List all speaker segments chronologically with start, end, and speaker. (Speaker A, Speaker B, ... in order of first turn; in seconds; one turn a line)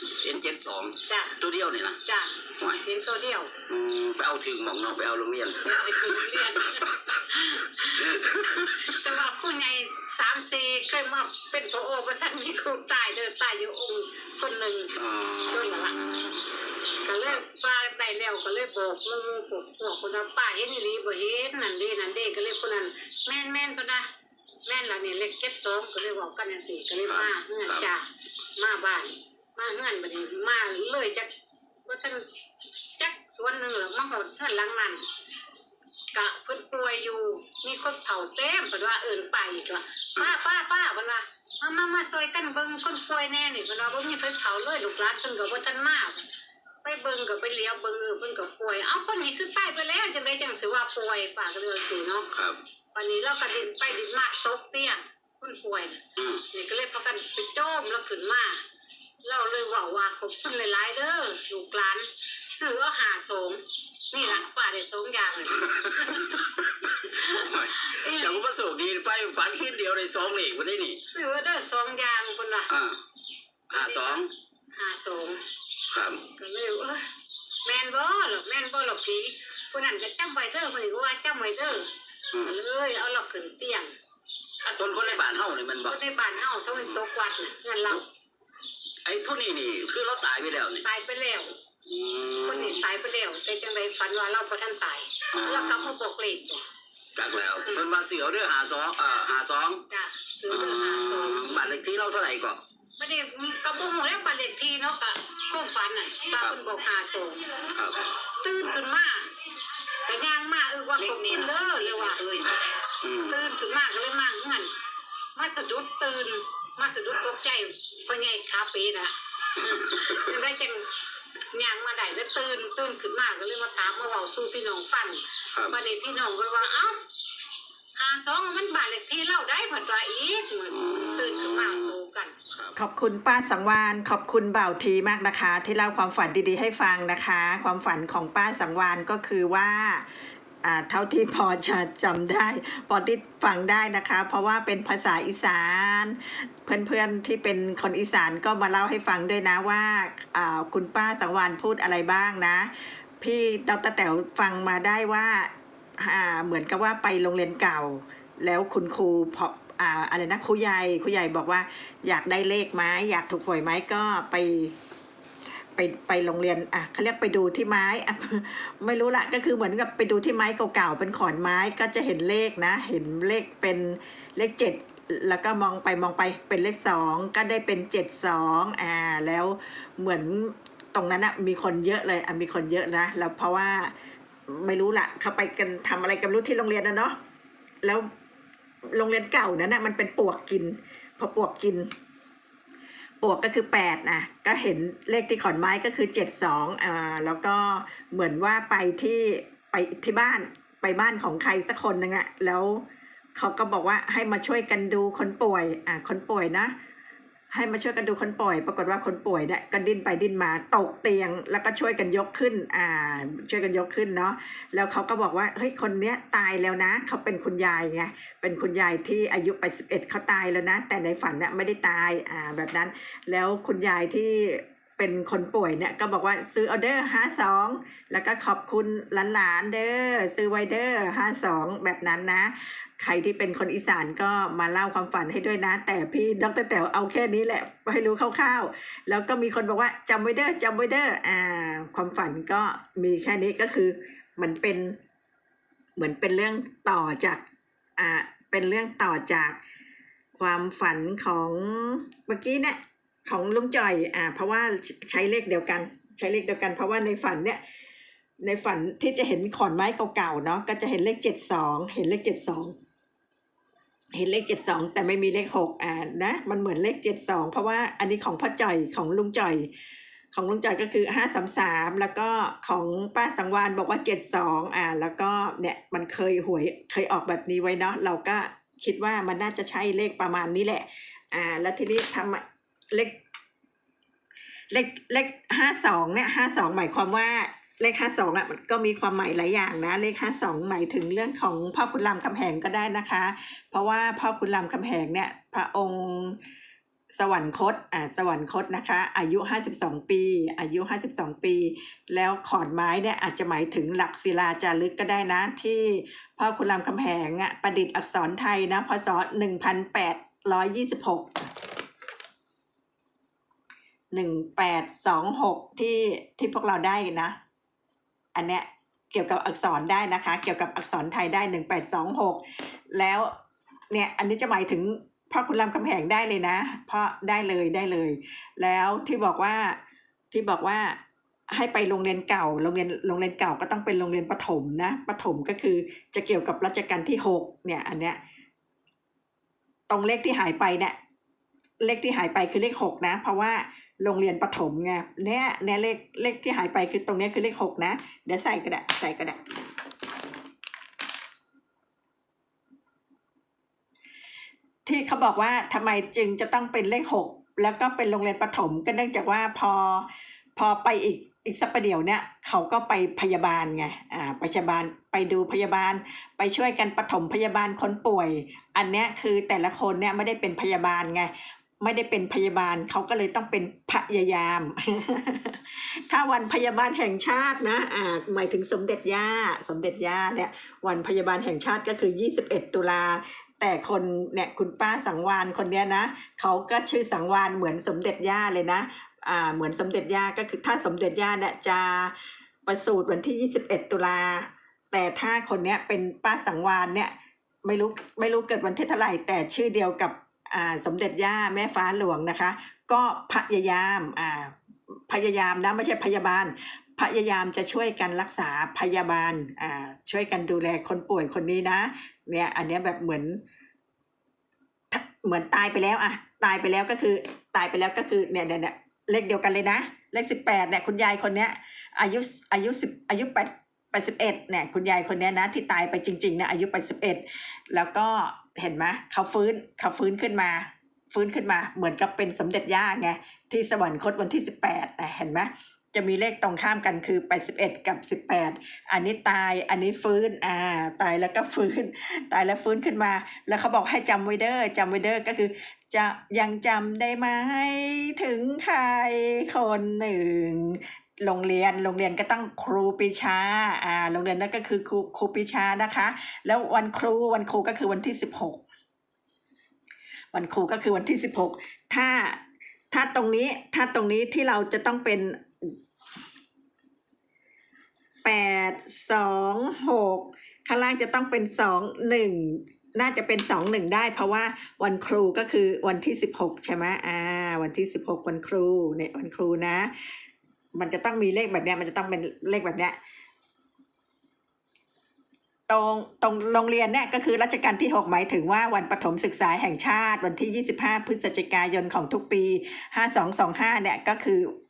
Speaker A: 0.1-2.0
Speaker B: 1.1-1.3
Speaker B: 2.0-3.5
Speaker A: 2.6-2.8
Speaker A: 3.7-7.1
Speaker B: 5.6-14.9
Speaker A: 8.1-8.7
Speaker A: 14.9-16.4
Speaker B: 15.5-16.0
Speaker B: 17.0-24.1
Speaker A: 17.1-17.4
Speaker B: 24.6-28.1
Speaker A: 27.1-27.9
Speaker B: 28.6-31.3
Speaker B: 31.9-32.2
Speaker B: 33.0-35.0
Speaker B: 36.1-46.2
Speaker B: 46.8-52.3
Speaker A: 52.3-52.6
Speaker B: 52.9-56.0
Speaker A: 56.2-56.4
Speaker B: 56.5-58.6
Speaker B: 59.2-66.5
Speaker A: 65.5-71.0
Speaker B: 67.2-68.4
Speaker B: 71.1-72.7
Speaker A: 72.7-73.0
Speaker A: 73.7-74.3
Speaker B: 73.7-75.4
Speaker A: 75.9-76.2
Speaker B: 76.3-77.1
Speaker B: 77.6-83.9
Speaker B: 84.6-85.2
Speaker A: 84.8-86.0
Speaker B: 85.8-88.0
Speaker A: 89.0-90.8
Speaker B: 90.8-91.5
Speaker A: 91.8-92.8
Speaker B: 92.5-96.6
Speaker A: 95.3-95.9
Speaker A: 97.2-99.8
Speaker B: 99.9-101.5
Speaker A: 100.5-102.6
Speaker B: 103.0-107.7
Speaker A: 106.3-106.6
Speaker A: 107.7-108.0
Speaker B: 108.2-109.3
Speaker B: 109.9-112.5
Speaker A: 111.0-113.4
Speaker B: 113.3-114.7
Speaker B: 115.3-120.8
Speaker A: 119.6-120.3
Speaker B: 121.5-127.0
Speaker B: 127.9-132.3
Speaker A: 130.7-131.9
Speaker C: 132.8-140.1
Speaker C: 140.6-164.8
Speaker C: 165.8-183.9
Speaker C: 184.5-187.2
Speaker C: 187.8-188.1
Speaker C: 188.9-191.9
Speaker C: 193.2-206.7
Speaker C: 207.5-245.0
Speaker C: 245.9-247.4
Speaker C: 248.0-249.6
Speaker C: 250.3-257.6
Speaker C: 258.4-262.8
Speaker C: 264.1-269.7
Speaker C: 270.3-283.2
Speaker C: 284.7-296.4
Speaker C: 297.1-311.3
Speaker C: 314.1-317.4
Speaker C: 318.3-323.3
Speaker C: 323.9-329.8
Speaker C: 330.3-331.0
Speaker C: 331.5-338.2
Speaker C: 339.9-340.9
Speaker C: 341.8-349.5
Speaker C: 354.9-413.4
Speaker C: 414.9-458.6
Speaker C: 460.3-465.8
Speaker C: 468.2-479.9
Speaker C: 480.7-483.0
Speaker C: 485.7-494.5